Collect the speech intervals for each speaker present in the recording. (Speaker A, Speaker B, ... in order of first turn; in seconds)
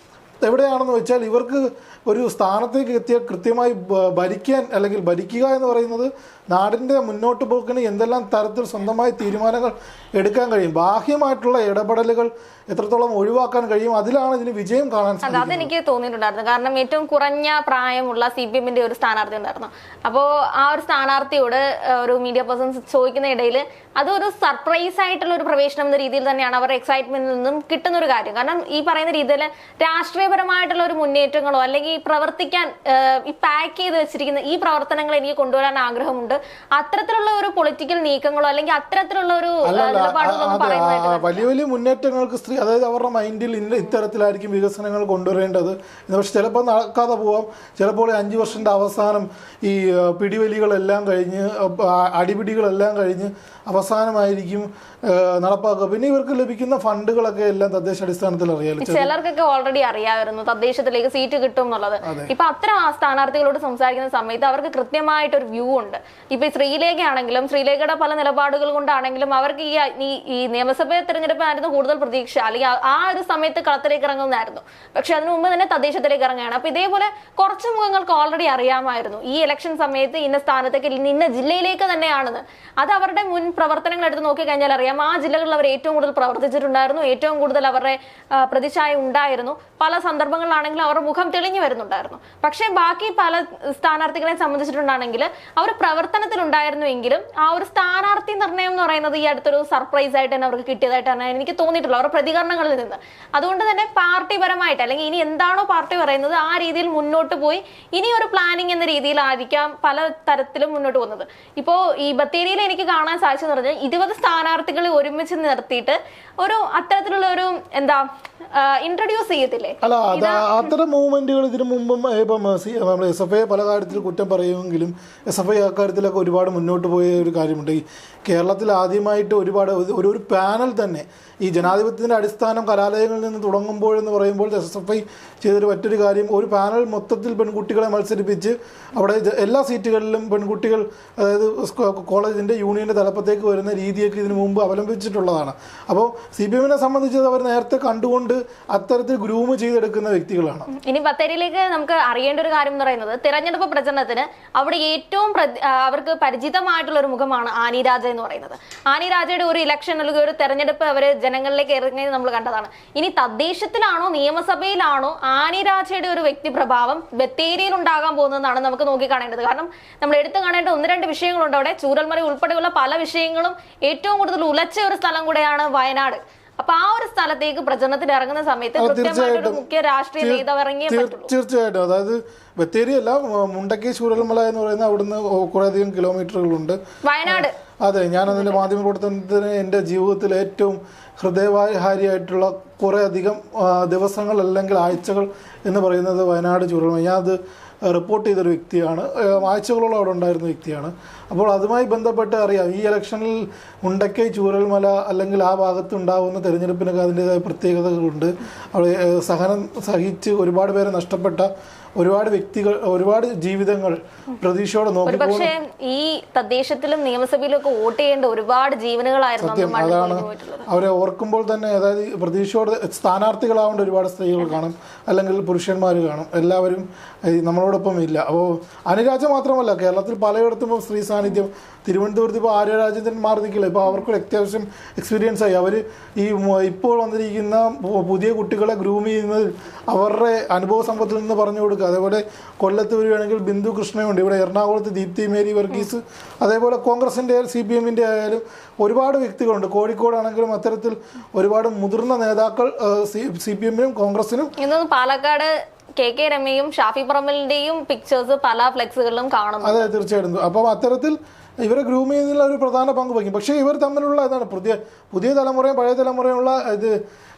Speaker A: 0.4-15.7, 39.6-59.1, 62.0-62.3, 119.8-150.7, 178.8-179.6, 180.2-215.5, 219.4-254.5, 259.6-267.0
Speaker B: 15.2-41.5, 58.8-120.6, 150.7-181.3, 187.0-187.5, 215.1-220.7, 254.6-259.9